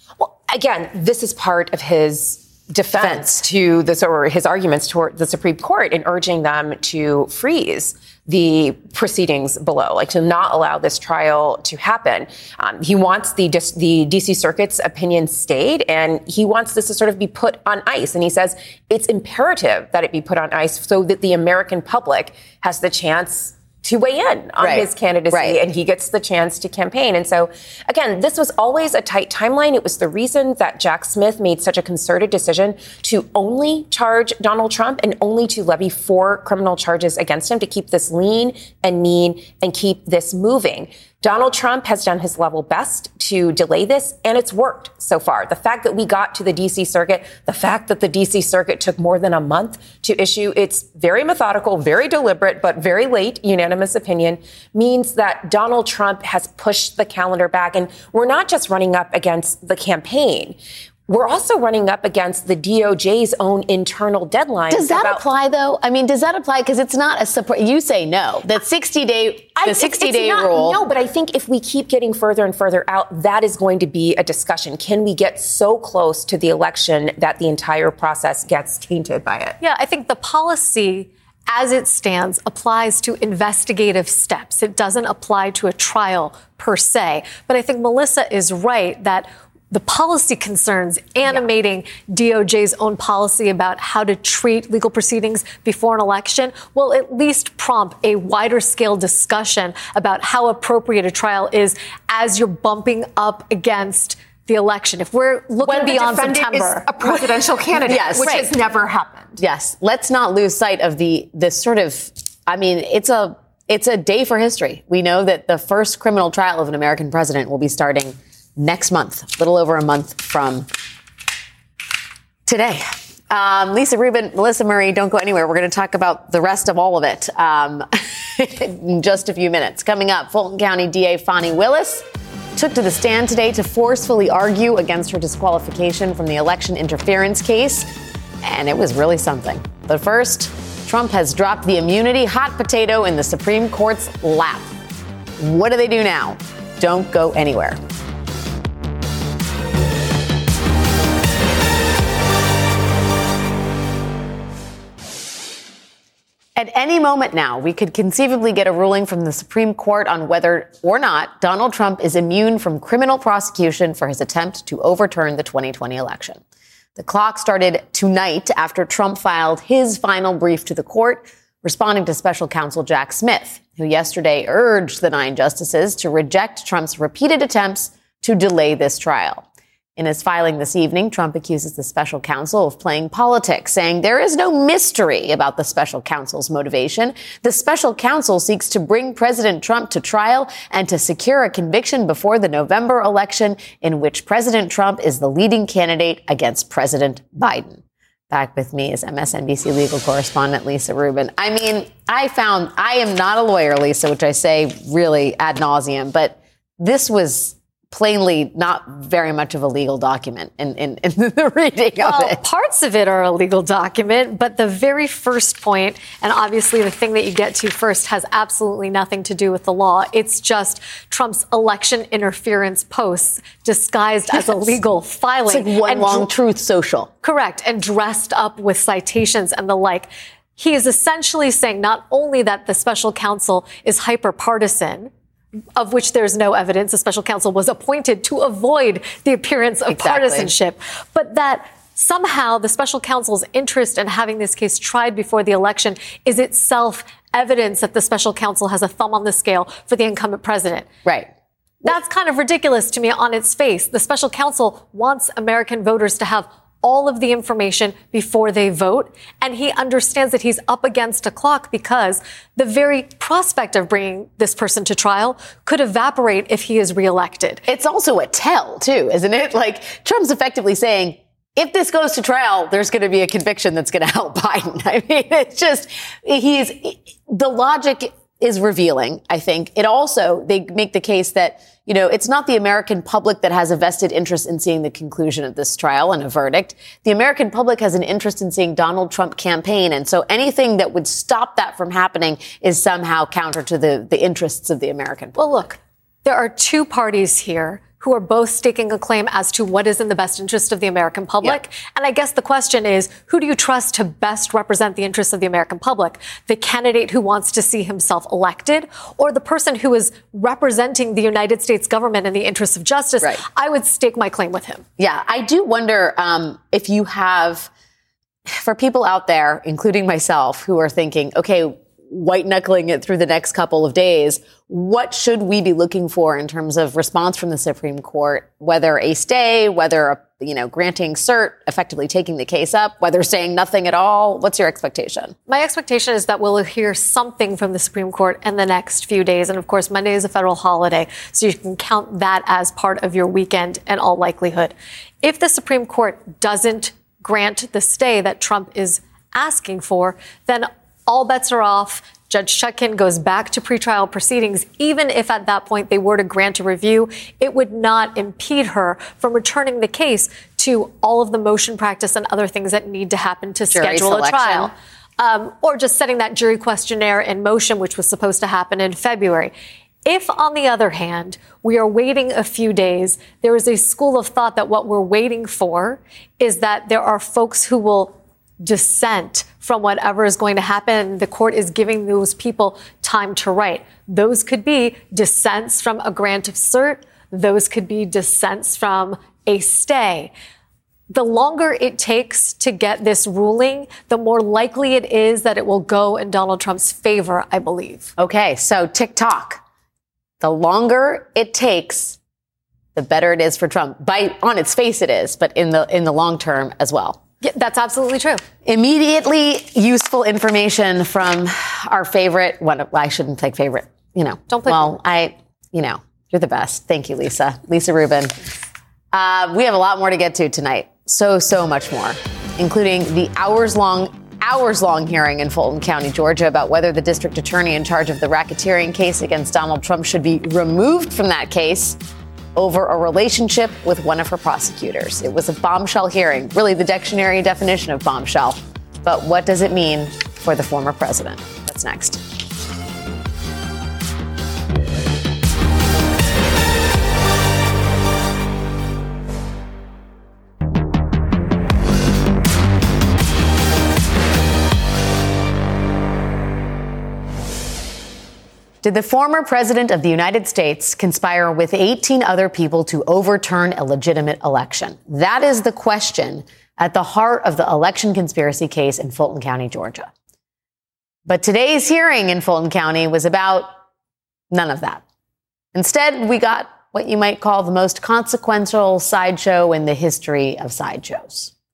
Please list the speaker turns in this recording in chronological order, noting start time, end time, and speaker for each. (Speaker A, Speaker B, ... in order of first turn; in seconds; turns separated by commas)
Speaker A: 0.2-60.6, Speaker B: 3.0-3.4, Speaker B: 24.6-25.6, Speaker A: 61.1-65.2, Speaker B: 64.7-70.8, Speaker A: 69.6-79.6, Speaker C: 79.6-107.3, Speaker A: 105.6-109.4, Speaker B: 107.9-108.5, Speaker B: 109.4-120.7, Speaker B: 122.5-132.1, Speaker B: 132.6-137.9, Speaker B: 138.4-144.7, Speaker B: 145.4-147.8, Speaker B: 156.6-166.4, Speaker B: 167.0-179.4, Speaker B: 180.0-212.4, Speaker C: 212.0-226.3, Speaker B: 224.3-224.8, Speaker B: 225.5-227.1, Speaker C: 227.2-235.1, Speaker C: 235.8-250.9, Speaker B: 239.9-240.5, Speaker C: 251.8-267.6, Speaker B: 267.7-295.6, Speaker C: 295.4-314.8, Speaker B: 315.0-317.7, Speaker B: 318.5-335.4, Speaker C: 335.5-369.5, Speaker B: 363.7-364.7, Speaker C: 370.1-390.3, Speaker C: 391.1-398.1, Speaker B: 398.2-399.6, Speaker B: 400.4-402.2, Speaker B: 402.9-407.2, Speaker C: 407.4-408.4, Speaker B: 408.6-418.4, Speaker C: 414.5-414.9, Speaker B: 419.1-432.0, Speaker B: 432.6-442.2, Speaker B: 458.8-470.1, Speaker B: 471.3-473.7, Speaker B: 474.5-475.0, Speaker B: 475.7-481.5